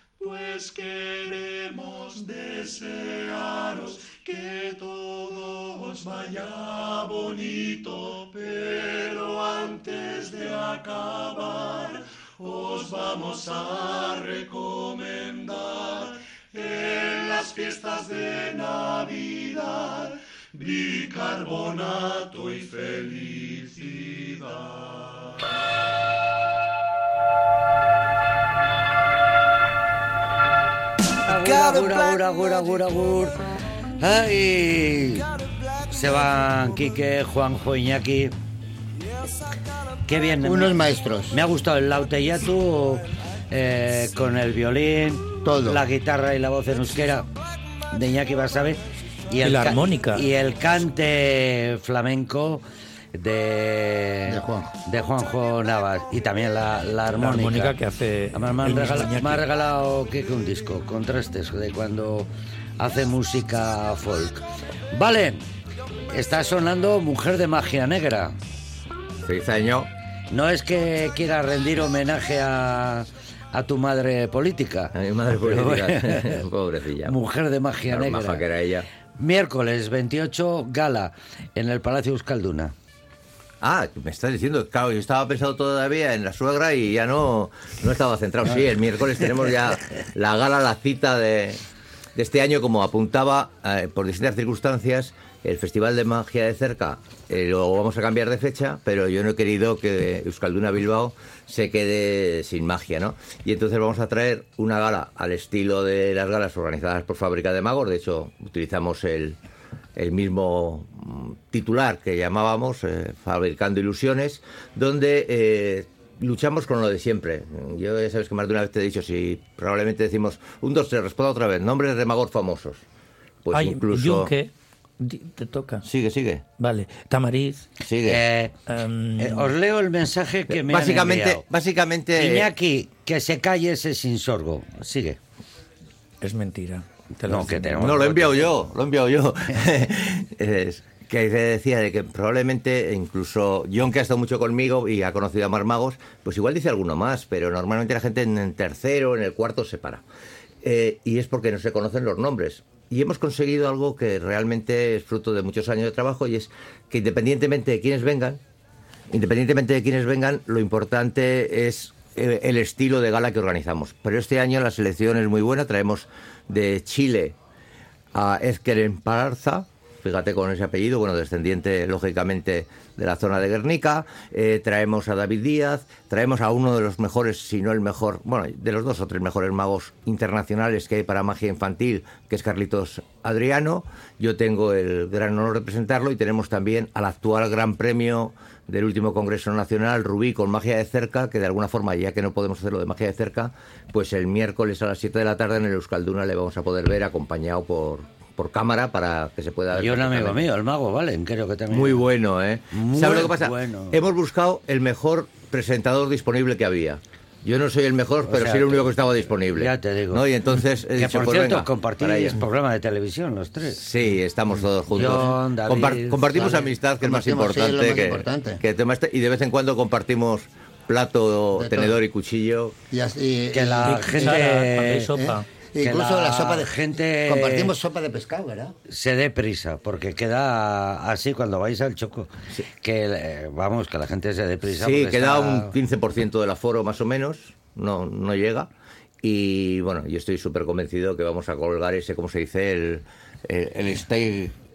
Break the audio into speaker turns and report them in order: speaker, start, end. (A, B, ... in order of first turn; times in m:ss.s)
0:00.2-0:25.0 A
0:31.2-0:33.4 B
0:34.0-0:35.3 B
0:35.9-0:38.3 B
0:40.0-0:47.3 B
0:40.4-0:41.4 C
0:45.4-0:45.8 C
0:47.9-0:52.6 B
0:49.4-0:50.2 D
0:53.1-0:57.8 B
0:54.3-0:54.7 C
0:57.2-0:59.4 D
0:58.3-1:05.4 B
1:06.1-1:08.3 B
1:09.2-1:09.9 E
1:10.3-1:16.4 B
1:14.9-1:17.1 E
1:17.0-1:18.4 B
1:17.9-1:18.9 E
1:19.2-1:22.7 B
1:23.6-1:31.6 E
1:32.1-1:49.4 E
1:50.0-2:02.8 E
2:03.4-2:04.3 E
2:03.5-2:05.9 D
2:05.8-2:06.4 E
2:06.6-2:07.6 D
2:07.8-2:08.2 E
2:08.0-2:08.5 B
2:08.7-2:09.5 D
2:09.2-2:11.4 B
2:10.5-2:12.5 E
2:12.1-2:15.2 B
2:16.2-2:18.1 D
2:17.3-2:18.3 B
2:17.8-2:30.0 E
2:30.6-2:38.4 E
2:39.1-2:47.4 E
2:48.1-3:20.4 E
3:19.7-3:22.1 B
3:21.7-3:32.4 E
3:22.7-3:24.0 B
3:28.3-3:29.0 B
3:29.5-3:30.2 B
3:30.9-3:33.8 B
3:33.7-3:42.8 E
3:34.9-3:36.7 B
3:37.0-3:38.6 C
3:41.6-3:42.0 C
3:42.9-3:44.3 C
3:43.5-3:45.1 B
3:43.8-3:45.5 D
3:45.1-3:46.7 C
3:45.8-3:47.8 B
3:47.2-3:48.8 C
3:48.8-3:52.3 B
3:52.8-3:55.7 B
3:54.7-3:58.7 E
3:59.2-4:04.5 E